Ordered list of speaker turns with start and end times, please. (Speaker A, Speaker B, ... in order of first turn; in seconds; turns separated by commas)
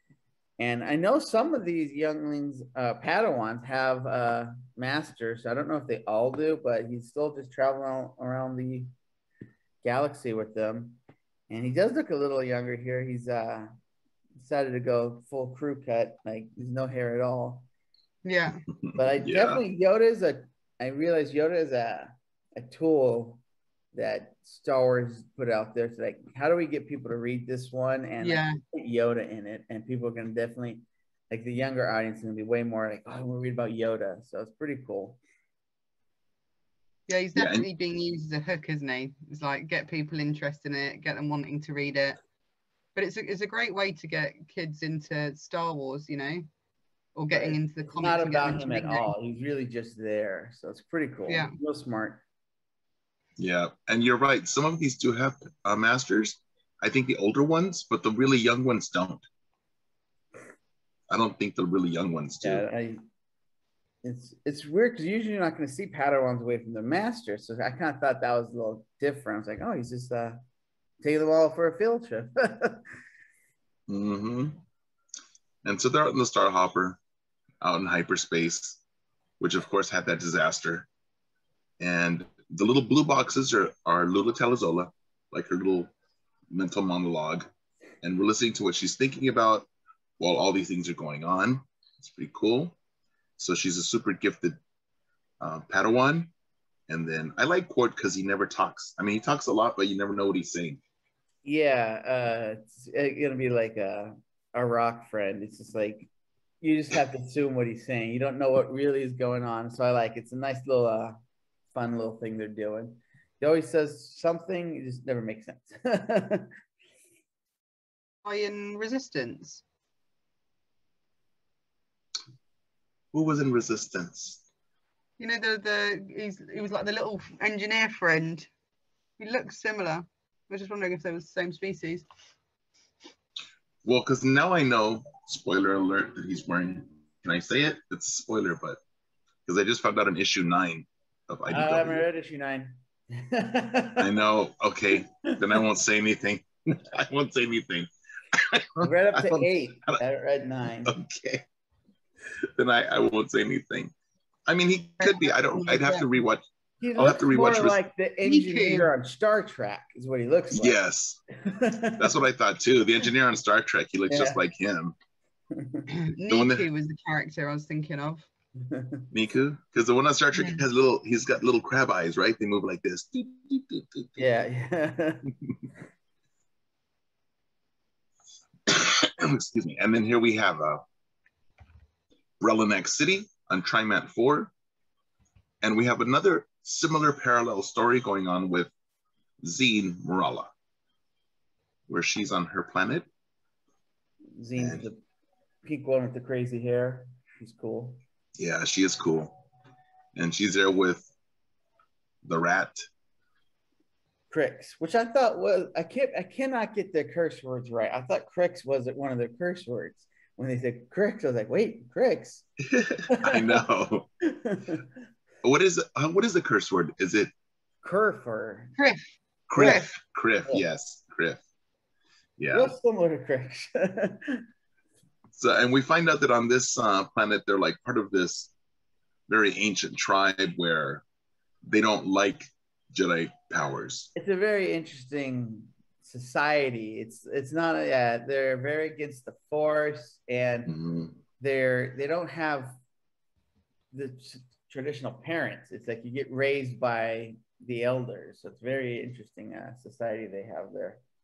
Speaker A: 0.6-8.9, Speaker A: 9.8-13.7, Speaker A: 14.4-17.7, Speaker B: 18.2-18.6, Speaker C: 18.7-19.6, Speaker A: 18.9-23.4, Speaker A: 23.9-35.2, Speaker B: 28.2-28.6, Speaker B: 37.1-42.2, Speaker C: 37.4-37.7, Speaker B: 43.0-46.5, Speaker B: 47.2-49.1, Speaker A: 47.3-52.2, Speaker B: 51.3-51.5, Speaker C: 53.4-59.2, Speaker C: 61.1-62.6, Speaker A: 62.4-63.0, Speaker A: 64.0-70.4, Speaker A: 71.0-72.9, Speaker C: 73.9-74.6, Speaker C: 75.6-77.0, Speaker C: 77.6-78.8, Speaker C: 79.4-80.9, Speaker C: 81.8-85.9, Speaker C: 86.5-87.5, Speaker C: 88.0-89.7, Speaker C: 90.2-92.8, Speaker C: 93.4-94.6, Speaker C: 95.4-96.3, Speaker C: 96.9-100.8, Speaker A: 101.4-106.1, Speaker A: 106.6-111.2, Speaker A: 111.7-116.5, Speaker B: 118.2-119.6, Speaker C: 123.1-124.4, Speaker B: 125.2-128.5, Speaker B: 129.2-132.1, Speaker C: 133.8-138.8, Speaker C: 139.5-142.1, Speaker A: 141.5-144.1, Speaker C: 144.0-150.0, Speaker A: 148.8-151.0, Speaker C: 150.9-151.4, Speaker C: 152.4-153.9, Speaker C: 154.5-156.4, Speaker B: 155.0-156.1, Speaker A: 156.8-160.8, Speaker C: 157.0-157.8, Speaker B: 158.2-158.9, Speaker C: 160.5-161.2, Speaker A: 161.4-162.1, Speaker C: 162.0-165.0, Speaker A: 164.1-164.4, Speaker A: 165.6-165.9, Speaker B: 165.9-168.3, Speaker C: 166.3-166.7, Speaker A: 168.7-169.1, Speaker C: 169.1-174.3, Speaker B: 170.3-170.6, Speaker A: 174.2-175.3, Speaker C: 178.7-180.8, Speaker C: 182.4-184.5, Speaker C: 185.6-188.7, Speaker C: 189.4-190.5, Speaker C: 191.9-193.1, Speaker A: 194.4-195.0, Speaker C: 194.6-194.8, Speaker A: 195.6-198.0, Speaker C: 198.4-199.4, Speaker C: 200.2-201.1, Speaker C: 202.2-202.9, Speaker A: 204.3-212.5, Speaker C: 212.7-214.1, Speaker A: 213.1-213.6, Speaker A: 214.2-214.8, Speaker C: 215.4-217.3, Speaker A: 217.8-218.8, Speaker C: 219.5-221.4, Speaker A: 219.6-219.8, Speaker B: 219.6-219.9, Speaker C: 222.4-222.7, Speaker A: 222.5-224.4, Speaker C: 225.4-228.5, Speaker C: 229.3-231.0, Speaker C: 231.7-234.1, Speaker A: 234.2-240.7, Speaker C: 240.7-241.2, Speaker A: 241.4-242.8, Speaker A: 243.9-251.0